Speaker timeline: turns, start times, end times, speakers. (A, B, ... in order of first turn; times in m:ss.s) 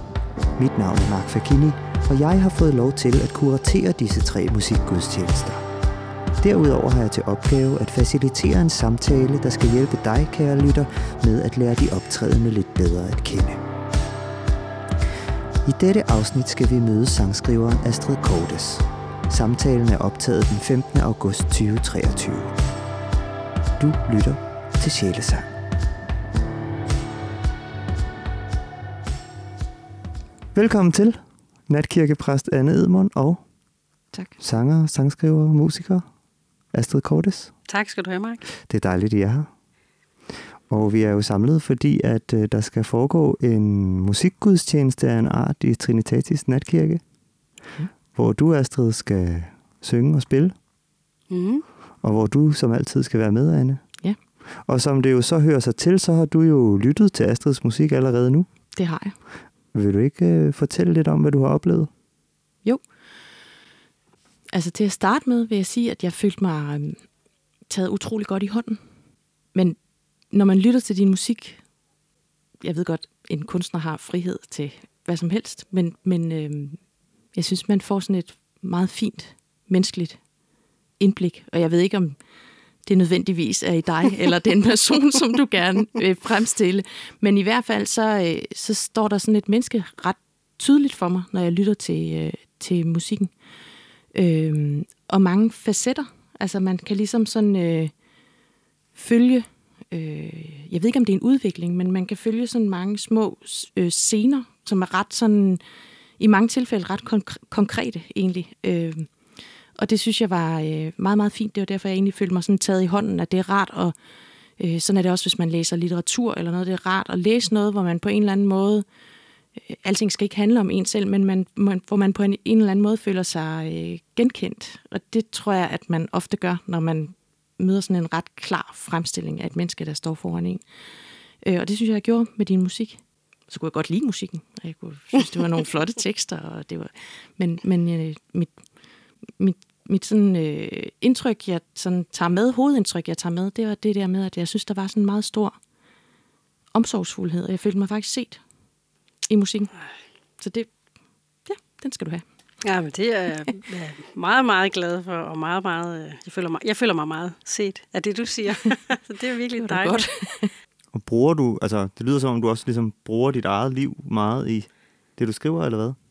0:00.6-0:05.6 A
0:06.4-0:13.6 A
0:15.6-0:22.5 A
0:23.8-0:25.5 A
0:30.5-0:33.4 A
0:34.1-0:34.4 B
0:34.4-0:36.0 A
0:36.7-0:37.6 A
0:37.7-0:38.5 C
0:38.6-0:39.5 A
0:40.7-0:47.0 A
0:48.1-0:50.6 A
0:51.3-0:51.6 C
0:52.0-0:53.9 A
0:54.5-0:58.5 A
0:58.7-0:59.2 B
0:59.7-1:01.9 A
1:02.6-1:03.0 B
1:04.5-1:07.1 B
1:07.7-1:08.8 B
1:09.5-1:11.6 B
1:12.6-1:20.3 B
1:21.0-1:22.2 B
1:22.8-1:33.3 B
1:34.1-1:37.9 B
1:39.0-1:45.6 B
1:46.2-1:49.1 B
1:49.8-1:54.0 B
1:54.6-1:58.8 B
1:59.6-2:10.6 B
2:11.4-2:18.6 B
2:19.2-2:25.6 B
2:26.7-2:28.4 B
2:29.3-2:29.7 B
2:30.4-2:30.8 B
2:31.4-2:32.2 B
2:32.6-2:40.1 C
2:39.6-2:40.5 B
2:40.9-2:46.0 A